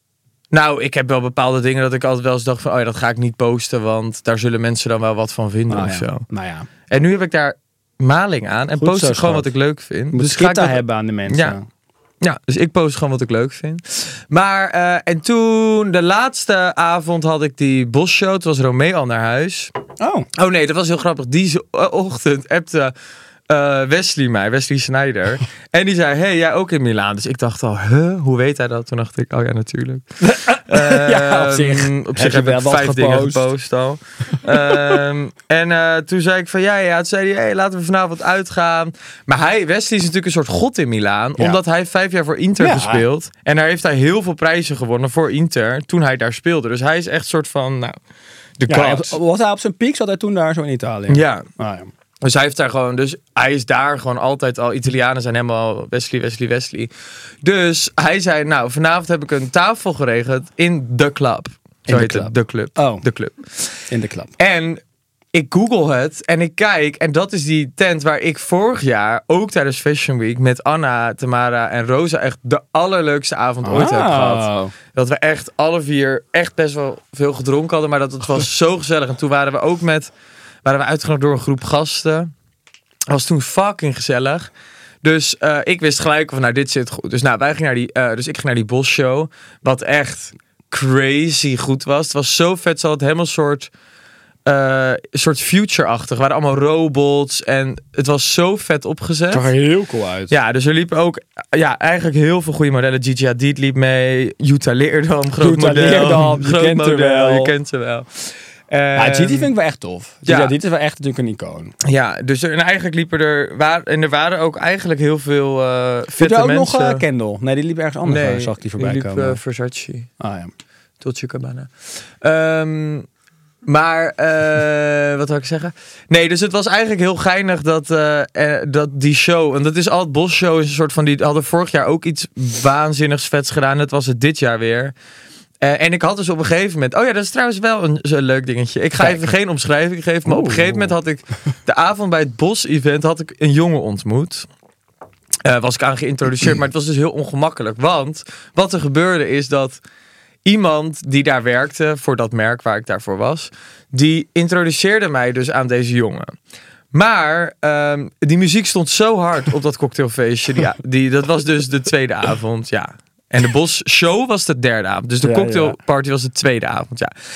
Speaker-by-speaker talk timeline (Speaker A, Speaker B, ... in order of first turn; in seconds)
Speaker A: 0.5-6.2, 6.9-11.6, 12.2-19.7, 20.4-22.9, 23.5-30.0, 30.7-48.0, 48.6-49.1, 51.1-51.5, 52.2-56.9, 57.4-63.8, 64.4-64.8, 65.3-80.1, 80.6-82.3, 83.1-84.5, 85.0-93.7, 94.5-99.5, 100.3-109.5, 110.2-110.5, 111.8-117.0, 118.0-120.1, 121.0-123.1, 123.7-134.9, 135.6-144.4, 145.4-149.8, 150.4-156.3, 156.9-167.1
Speaker B: 5.7-6.7, 8.8-9.5, 10.1-11.6, 20.0-20.3, 30.2-33.5, 34.5-35.0, 42.6-43.0, 48.7-51.9, 61.9-63.0, 63.9-64.3, 73.6-74.7, 99.3-100.3, 105.4-107.5, 108.9-111.7, 116.2-119.4, 120.2-120.5, 139.0-139.3, 140.2-140.9, 165.2-165.8